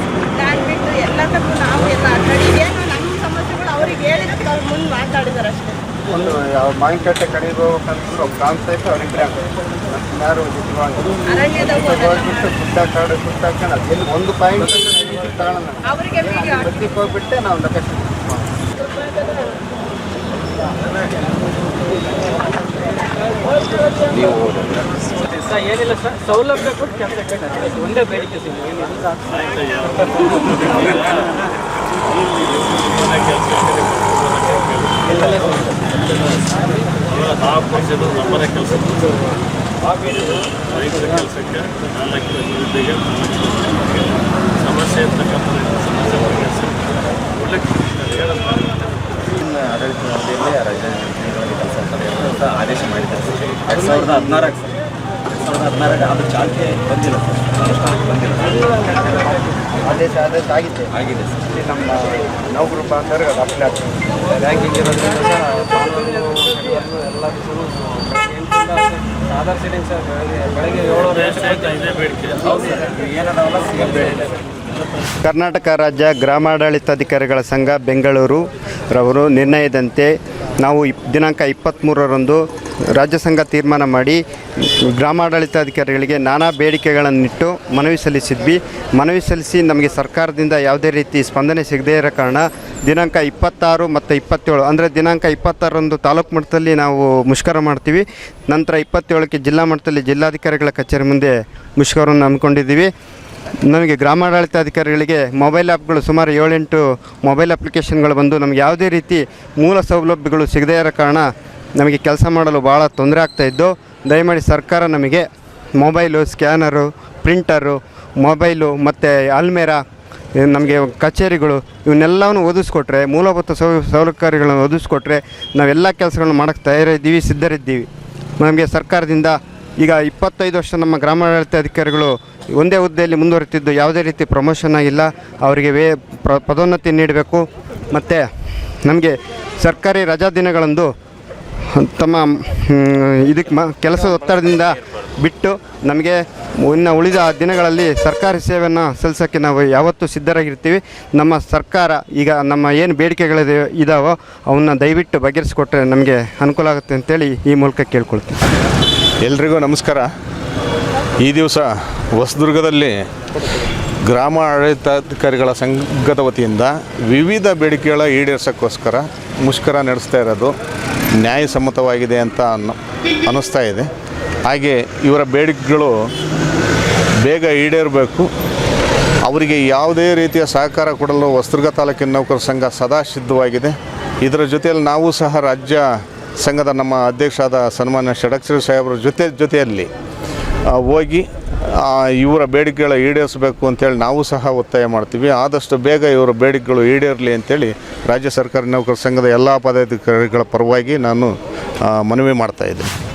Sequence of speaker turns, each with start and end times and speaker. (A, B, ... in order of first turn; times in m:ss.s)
0:00.3-0:05.8 A
0:06.1-0:18.5 B
0:25.4-0:29.0 C
0:49.7-0:54.6 D
0:55.7-0:57.2 D
0:59.8-1:06.2 B
1:09.4-1:10.0 C
1:10.5-1:11.7 C
1:15.2-1:42.9 B
1:43.7-1:59.8 B
2:00.4-2:07.9 B
2:08.4-2:18.3 B
2:18.8-2:20.9 B
2:21.7-2:38.4 B
2:39.2-2:40.1 E
2:41.2-2:43.0 E
2:44.1-2:50.6 E
2:51.2-2:53.9 E
2:54.5-2:55.9 E
2:57.2-2:58.3 E
2:59.2-3:05.8 E
3:06.4-3:09.9 E
3:10.7-3:11.3 E
3:11.8-3:21.3 E
3:21.9-3:22.9 E